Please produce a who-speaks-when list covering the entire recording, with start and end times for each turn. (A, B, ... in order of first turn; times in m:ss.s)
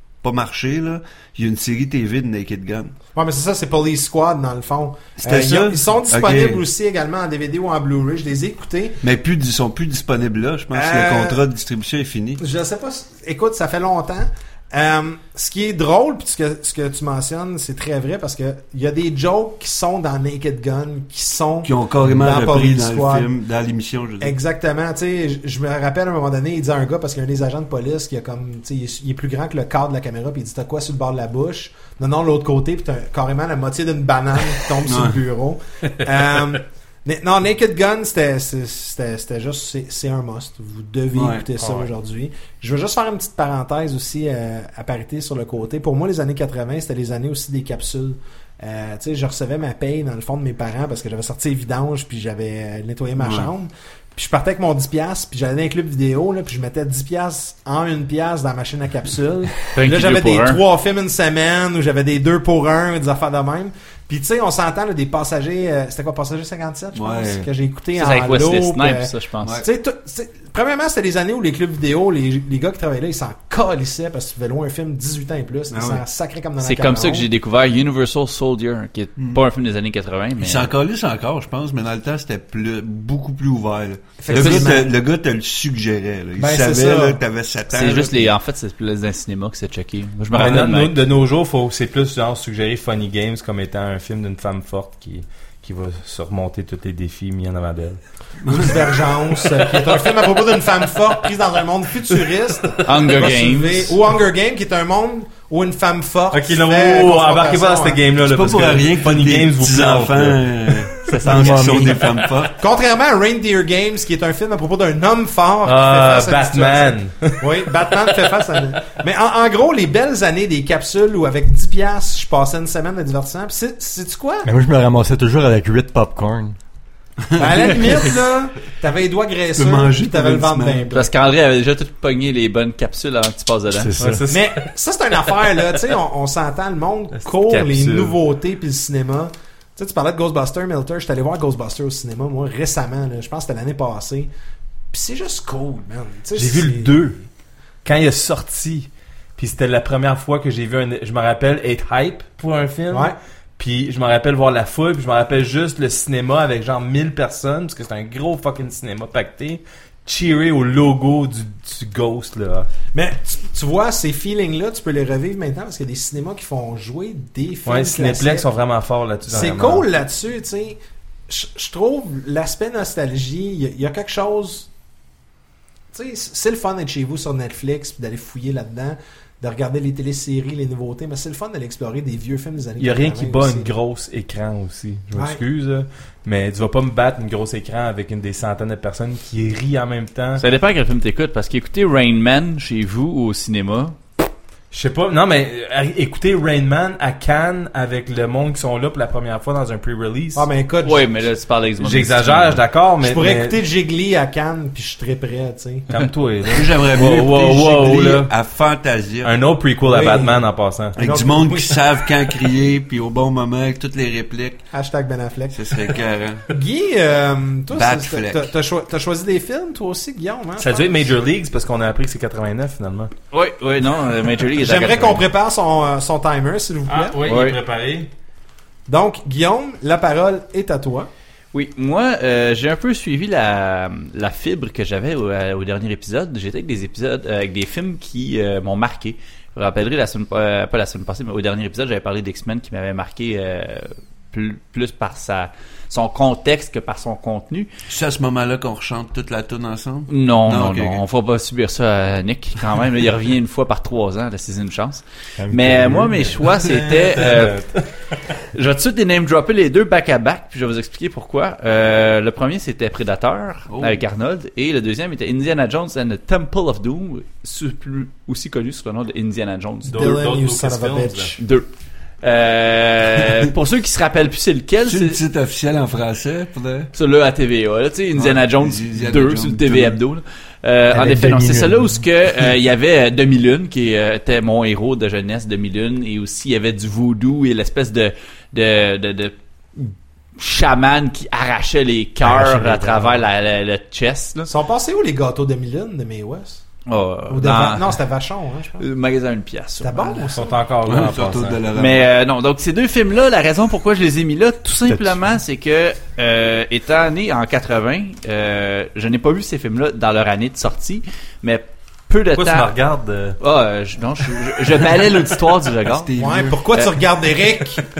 0:00.2-0:02.9 A
0:03.1-0:09.0 B
0:05.2-0:06.6 A
0:09.0-0:12.4 A
0:10.7-0:11.4 B
0:12.4-0:23.3 B
0:21.6-0:24.4 A
0:24.2-1:17.3 B
0:34.8-0:35.2 A
0:41.1-0:41.5 A
0:53.2-0:53.5 A
0:59.7-1:00.6 C
1:06.9-1:07.5 A
1:07.9-1:09.6 C
1:09.4-1:09.7 A
1:15.7-1:16.0 A
1:16.6-1:20.7 C
1:20.4-1:28.3 A
1:24.2-1:24.9 B
1:24.3-1:24.8 C
1:26.4-1:27.2 B
1:27.7-1:31.0 C
1:30.3-1:38.0 D
1:38.4-1:38.8 A
1:38.5-1:48.0 B
1:42.8-1:44.0 C
1:46.3-1:51.2 D
1:48.2-1:52.6 A
1:51.2-1:52.0 E
1:51.6-1:51.9 C
1:52.6-2:04.5 B
1:55.6-1:58.1 D
2:04.4-2:06.6 E
2:07.3-2:08.1 A
2:07.3-2:11.1 B
2:09.5-2:10.9 A
2:10.9-2:13.9 C
2:13.7-2:14.3 E
2:14.0-2:14.7 D
2:14.3-2:24.3 B
2:17.3-2:18.2 D
2:24.9-2:27.2 B
2:26.3-2:27.2 D
2:27.8-2:42.7 D
2:42.9-2:48.5 B
2:47.6-2:49.8 D
2:49.3-2:54.7 B
2:55.9-3:03.7 B
3:02.8-3:10.4 D
3:05.1-3:05.4 B
3:10.4-3:14.0 C
3:14.7-3:20.5 D
3:20.4-3:21.1 B
3:20.8-3:22.6 C
3:21.8-3:23.6 D
3:23.0-3:25.9 B
3:25.9-3:28.3 D
3:26.5-3:29.3 A
3:29.2-3:31.0 D
3:29.9-3:30.4 B
3:31.0-3:31.9 B
3:31.0-3:34.6 A
3:34.7-3:35.6 B
3:35.5-3:36.4 A
3:36.5-3:41.1 B
3:37.7-3:38.5 A
3:40.6-3:43.1 D
3:43.3-3:45.2 C
3:44.6-3:47.2 B
3:46.9-3:48.1 D
3:47.2-3:47.6 C
3:48.9-3:51.1 B
3:51.5-4:07.7 C
4:07.9-4:11.0 A
4:10.1-4:17.6 C
4:15.4-4:16.6 E
4:16.6-4:17.8 D
4:18.5-4:30.2 C
4:23.7-4:24.0 A
4:29.9-4:31.4 D
4:29.9-4:31.4 B
4:31.4-4:31.7 C
4:32.2-4:35.2 C
4:34.8-4:36.9 A
4:36.9-4:54.5 C
4:38.2-4:40.0 A
4:40.9-4:42.0 E
4:52.2-4:53.2 E
4:54.5-4:56.6 B
4:56.9-4:58.0 C
4:57.3-4:58.8 B
4:58.8-5:00.4 C
4:59.8-5:00.6 B
5:00.3-5:01.6 D
5:00.8-5:02.1 A
5:01.7-5:12.7 C
5:04.9-5:05.2 E
5:12.3-5:13.4 D
5:13.4-5:16.1 C
5:15.8-5:16.7 A
5:16.2-5:17.8 B